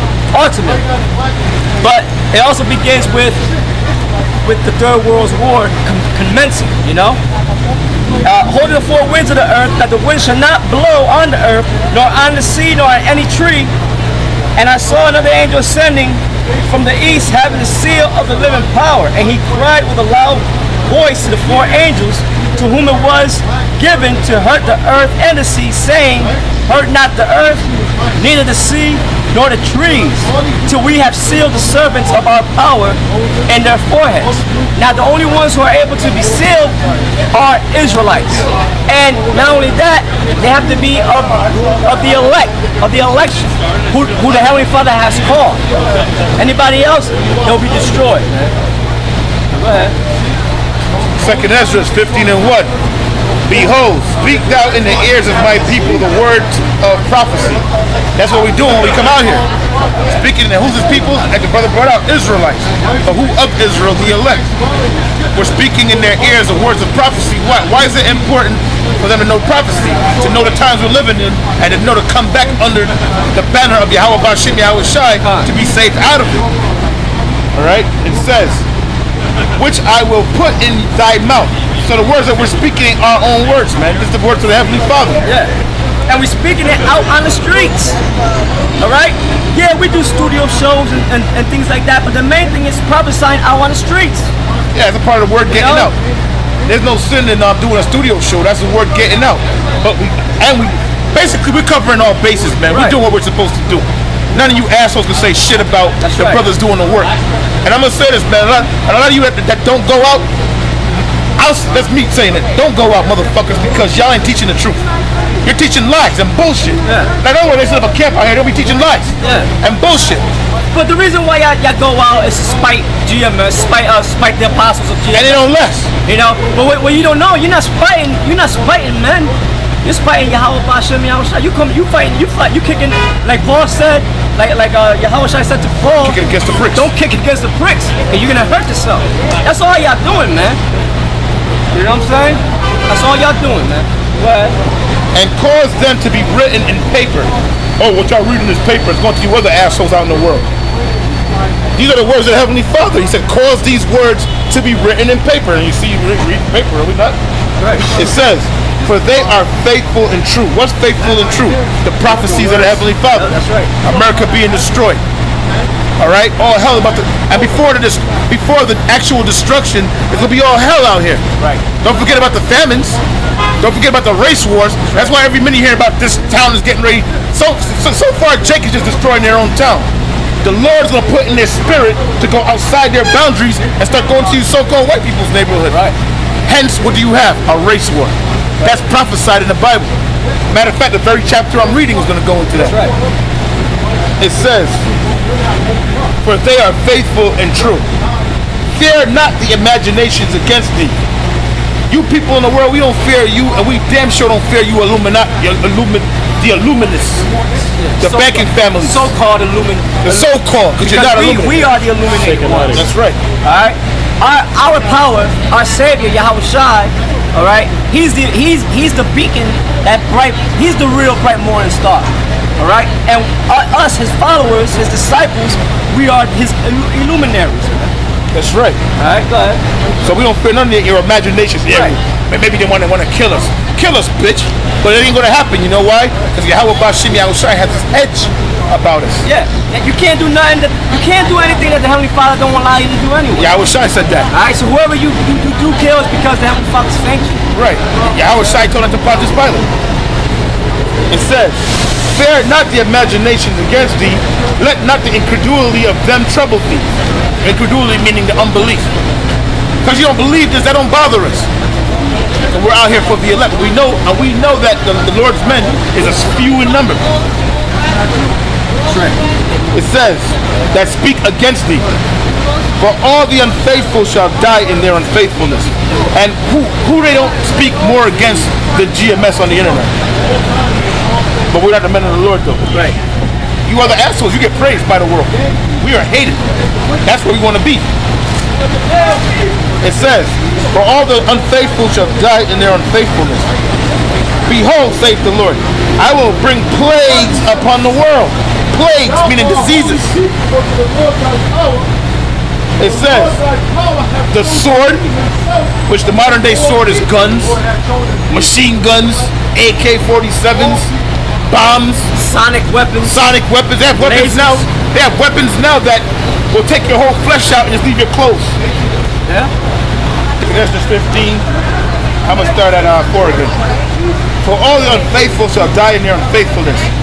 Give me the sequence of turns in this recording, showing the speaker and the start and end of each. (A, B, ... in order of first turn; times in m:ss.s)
0:00.3-0:00.8 A
0:01.8-0:03.4 A
0:04.4-0:07.2 A
0:08.2-0:13.7 A
0:14.6-0:36.8 A
0:37.3-0:45.6 A
0:46.4-0:48.5 A
0:49.5-0:49.9 A
0:51.2-0:52.7 B
0:53.5-0:57.6 B
0:58.2-0:59.4 B
1:00.1-1:04.4 B
1:05.4-1:16.4 B
1:15.2-1:15.5 A
1:17.6-1:18.6 B
1:19.6-1:25.2 B
1:25.2-1:25.5 A
1:26.1-1:28.0 A
1:28.8-1:34.3 A
1:34.7-1:36.0 B
1:35.5-1:35.9 A
1:36.7-1:47.1 B
1:42.7-1:43.0 A
1:46.0-1:46.4 A
1:47.6-1:50.3 B
1:51.4-1:54.8 B
1:55.4-2:00.2 B
1:56.8-1:57.1 A
1:59.2-1:59.5 A
2:00.7-2:05.4 A
2:05.1-2:05.9 B
2:06.0-2:09.3 A
2:09.8-2:16.2 A
2:16.0-2:16.9 B
2:16.7-2:20.6 A
2:21.7-2:24.6 A
2:25.1-2:30.5 B
2:31.8-2:37.2 B
2:37.6-2:37.9 A
2:37.9-2:45.0 B
2:43.1-2:43.7 A
2:46.0-2:51.2 B
2:51.8-2:53.0 B
2:53.6-2:59.9 B
3:00.4-3:05.8 B
3:06.5-3:09.9 B
3:10.5-3:12.8 B
3:12.6-3:12.9 A
3:14.2-3:14.8 B
3:16.2-3:17.8 B
3:18.7-3:21.0 B
3:21.9-3:27.3 B
3:27.9-3:32.9 A
3:28.0-3:29.1 B
3:30.0-3:31.6 B
3:32.7-3:33.2 B
3:33.4-3:47.9 A
3:48.3-3:48.8 B
3:49.0-3:49.6 A
3:50.0-3:59.2 B
3:51.7-3:52.0 A
3:59.2-4:03.5 A
4:03.4-4:04.3 B
4:04.3-4:07.4 A
4:07.5-4:09.7 B
4:11.1-4:16.9 B
4:17.4-4:18.9 B
4:19.8-4:21.5 B
4:22.5-4:27.0 B
4:28.9-4:29.2 A
4:29.7-4:31.8 B
4:32.8-4:39.9 B
4:41.5-4:42.8 B
4:43.7-4:46.4 B
4:47.0-4:47.8 B
4:49.8-4:53.5 B
4:54.5-5:00.2 B
5:02.8-5:03.4 B
5:04.3-5:05.0 B
5:05.9-5:07.6 B
5:08.3-5:10.9 B
5:11.5-5:12.1 B
5:12.1-5:13.3 A
5:13.0-5:18.6 B
5:14.0-5:14.6 A
5:20.4-5:21.4 B
5:22.3-5:23.6 B
5:24.4-5:26.9 B